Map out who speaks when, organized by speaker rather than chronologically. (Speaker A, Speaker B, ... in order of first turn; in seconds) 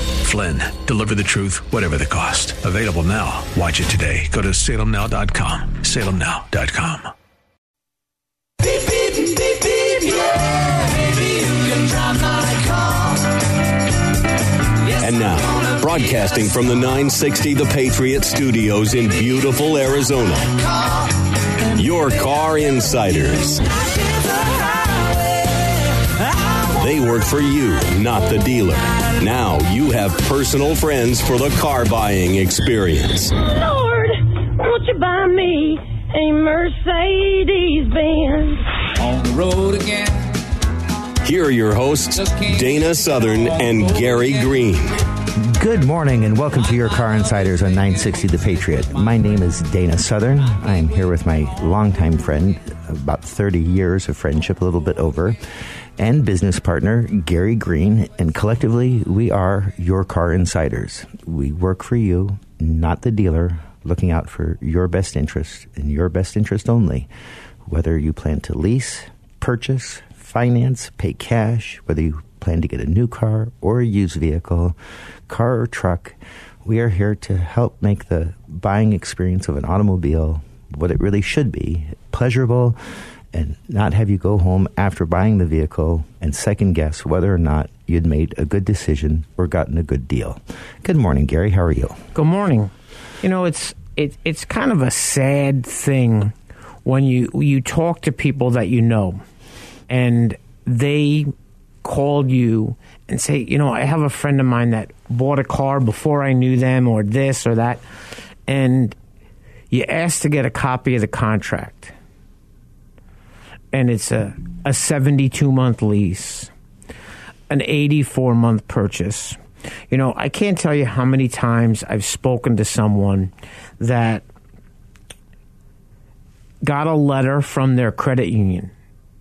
Speaker A: 0.2-7.1
Speaker B: 15.0-20.6, 21.7-23.6, 26.8-33.3, 41.2-45.0
Speaker C: 33.4-38.6
Speaker D: 45.4-55.4, 56.0-67.1, 67.7-74.8, 75.3-82.8, 83.3-92.0
Speaker E: 92.1-96.3, 96.8-99.2, 99.9-101.3, 101.8-107.8, 108.5-109.0, 109.7-111.9, 113.7-116.5, 117.5-119.4, 119.9-124.2, 126.6-128.7